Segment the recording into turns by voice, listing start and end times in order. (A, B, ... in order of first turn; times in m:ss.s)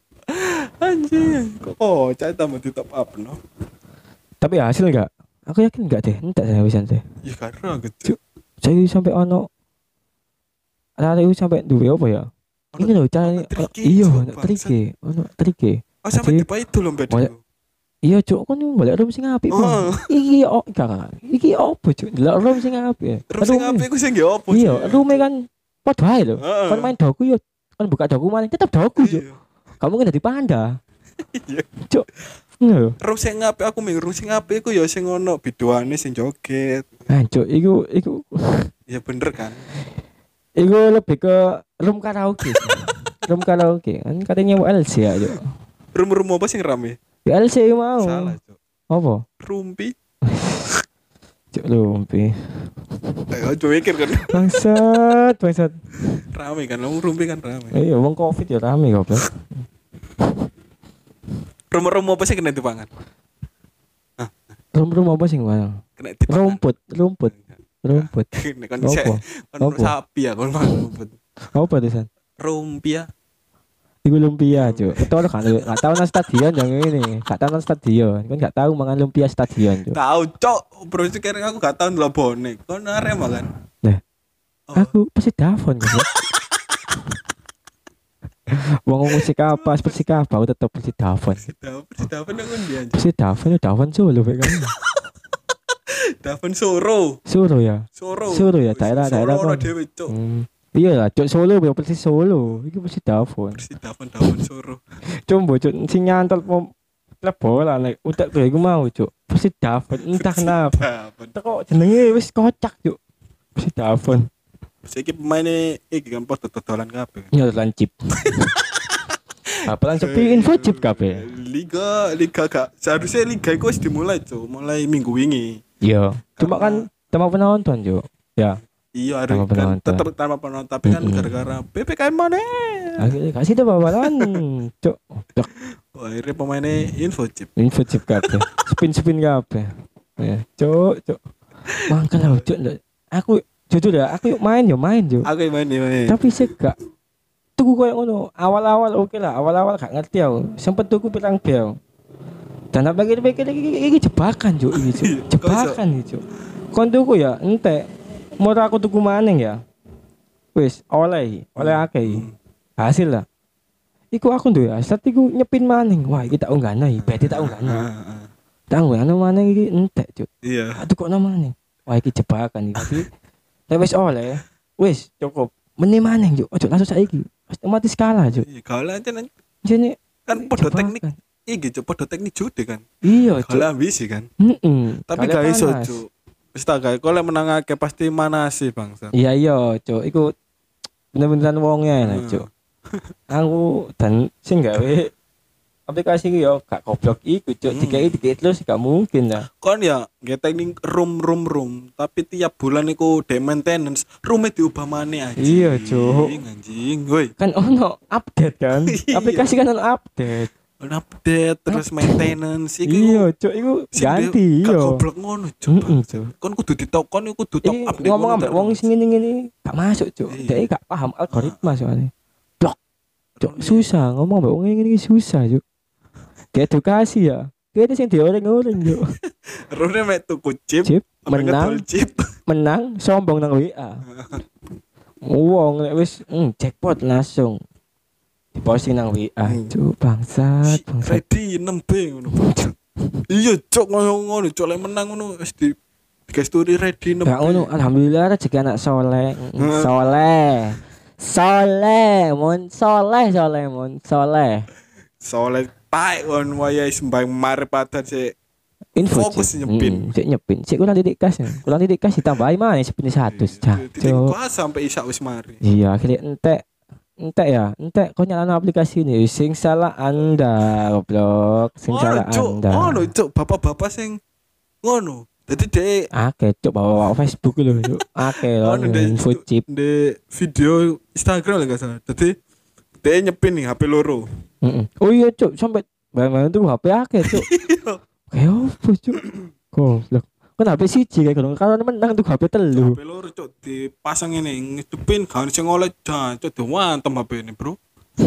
0:00.3-0:03.4 A
0:04.4-0:07.0 B
0:07.2-0:08.2 A
0:08.0-0:09.5 B
0:11.0-0:16.4 B
0:12.7-0:14.7 A
0:16.0-0:17.4 A
0:18.0-0:23.9 B
0:19.5-0:20.1 A
0:23.3-0:25.2 A
0:24.5-0:29.2 B
0:26.4-0:26.9 A
0:29.0-0:29.4 A
0:29.8-0:30.8 B
0:31.3-0:31.7 A
0:32.6-0:33.0 B
0:33.0-0:36.9 A
0:37.1-0:38.7 B
0:38.9-0:39.6 A
0:40.6-0:45.4 B
0:45.9-0:47.0 A
0:47.2-0:48.4 B
0:48.0-0:48.6 A
0:48.9-0:49.2 B
0:49.4-0:49.9 A
0:50.2-0:50.7 B
0:51.5-0:53.2 B
0:53.3-0:54.6 A
0:54.3-0:55.7 B
0:56.0-0:57.8 A
0:57.7-0:59.6 B
1:01.7-1:02.9 A
1:04.7-1:07.3 B
1:06.0-1:06.6 A
1:07.8-1:08.3 B
1:07.9-1:11.2 A
1:08.8-1:09.9 B
1:11.5-1:12.1 B
1:12.4-1:13.1 A
1:14.0-1:20.0 B
1:14.5-1:15.7 A
1:19.9-1:23.5 A
1:24.7-1:26.1 B
1:28.5-1:31.4 B
1:29.4-1:30.2 A
1:31.4-1:33.0 A
1:32.9-1:34.7 B
1:34.5-1:35.0 A
1:35.9-1:37.2 A
1:37.2-1:43.6 B
1:38.0-1:40.1 A
1:43.6-1:44.8 A
1:45.2-1:53.0 B
1:50.1-1:51.3 A
1:53.6-1:54.3 B
1:54.8-1:57.3 A
1:57.3-1:58.4 B
1:58.2-2:05.6 A
1:59.7-2:01.2 B
2:05.8-2:08.6 B
2:06.4-2:06.9 A
2:08.9-2:13.1 A
2:09.3-2:10.1 B
2:10.8-2:11.3 B
2:13.0-2:15.5 B
2:14.0-2:14.4 A
2:15.9-2:17.5 A
2:17.6-2:21.2 B
2:18.1-2:18.4 A
2:21.9-2:25.3 B
2:25.2-2:26.3 A
2:26.1-2:26.8 B
2:27.6-2:31.8 B
2:32.7-2:39.6 B
2:34.7-2:35.8 A
2:40.5-2:42.2 B
2:41.6-2:42.3 A
2:42.8-2:43.2 B
2:44.1-2:47.8 B
2:47.0-2:48.3 A
2:48.7-2:53.1 B
2:50.4-2:50.8 A
2:53.7-2:58.4 B
2:58.3-2:59.3 A
2:59.6-3:01.2 B
3:00.3-3:02.9 A
3:03.0-3:03.7 B
3:03.4-3:04.3 A
3:04.4-3:06.0 B
3:05.1-3:09.1 A
3:09.1-3:10.3 B
3:11.1-3:12.4 B
3:12.0-3:13.0 A
3:13.3-3:15.1 B
3:15.9-3:19.5 B
3:17.7-3:18.2 A
3:19.6-3:27.3 A
3:25.4-3:26.4 B
3:27.4-3:30.5 B
3:28.7-3:29.5 A
3:30.8-3:33.3 A
3:31.7-3:32.2 B
3:32.8-3:35.0 B
3:33.9-3:38.8 A
3:35.7-3:36.3 B
3:37.6-3:42.8 B
3:40.3-3:40.6 A
3:41.3-3:41.7 A
3:43.4-3:43.9 A
3:43.4-3:45.6 B
3:46.5-3:49.1 B
3:49.1-3:52.3 A
3:50.8-3:51.8 B
3:52.5-3:54.0 B
3:54.0-3:54.4 A
3:55.2-3:57.6 B
3:58.5-4:01.2 B
3:59.4-3:59.7 A
4:00.6-4:02.7 A
4:02.3-4:03.2 B
4:03.3-4:05.8 A
4:06.3-4:07.7 A
4:07.2-4:14.7 B
4:09.6-4:10.2 A
4:15.2-4:18.3 A
4:19.0-4:24.3 B
4:19.0-4:20.1 A
4:23.2-4:25.6 A
4:25.6-4:26.6 B
4:27.2-4:33.1 B
4:31.9-4:34.2 A
4:34.8-4:36.1 A
4:36.1-4:39.6 B
4:37.7-4:42.4 A
4:43.0-4:44.2 A
4:44.6-4:47.5 B
4:47.2-4:48.0 A
4:48.3-4:49.2 B
4:49.7-4:53.0 B
4:52.7-4:57.8 A